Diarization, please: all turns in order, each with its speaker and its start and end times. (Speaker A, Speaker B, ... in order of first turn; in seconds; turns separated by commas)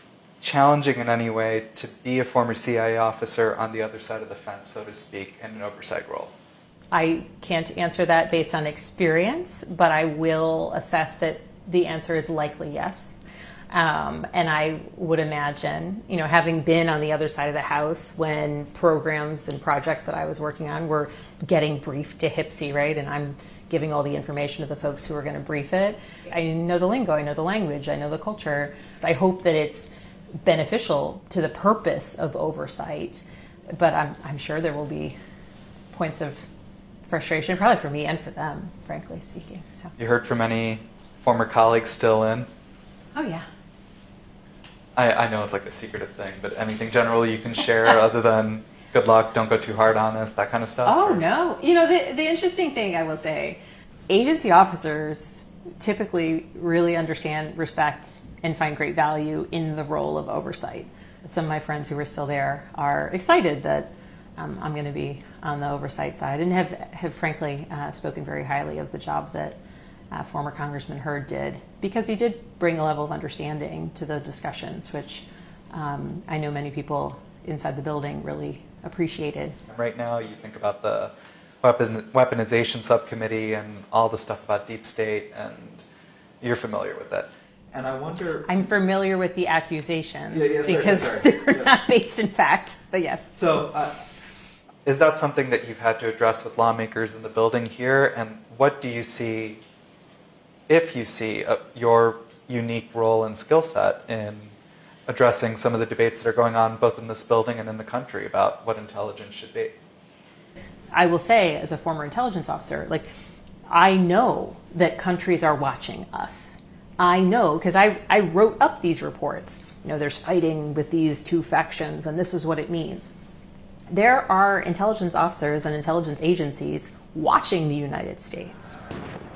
Speaker A: 0.4-6.3, Speaker B: 6.9-13.2, Speaker B: 13.7-29.9, Speaker B: 30.4-35.1, Speaker B: 35.9-36.5, Speaker B: 37.0-39.9, Speaker A: 40.0-42.5, Speaker B: 43.1-43.5, Speaker A: 45.0-51.2, Speaker B: 50.9-69.6, Speaker B: 70.1-79.6, Speaker A: 79.7-81.1, Speaker A: 81.6-85.8, Speaker A: 86.4-88.7, Speaker B: 88.5-93.4, Speaker A: 90.3-91.7, Speaker A: 93.3-94.0, Speaker A: 94.8-99.6, Speaker A: 100.7-104.5, Speaker A: 105.1-109.8, Speaker B: 111.0-113.1, Speaker B: 113.7-123.1, Speaker B: 123.9-128.8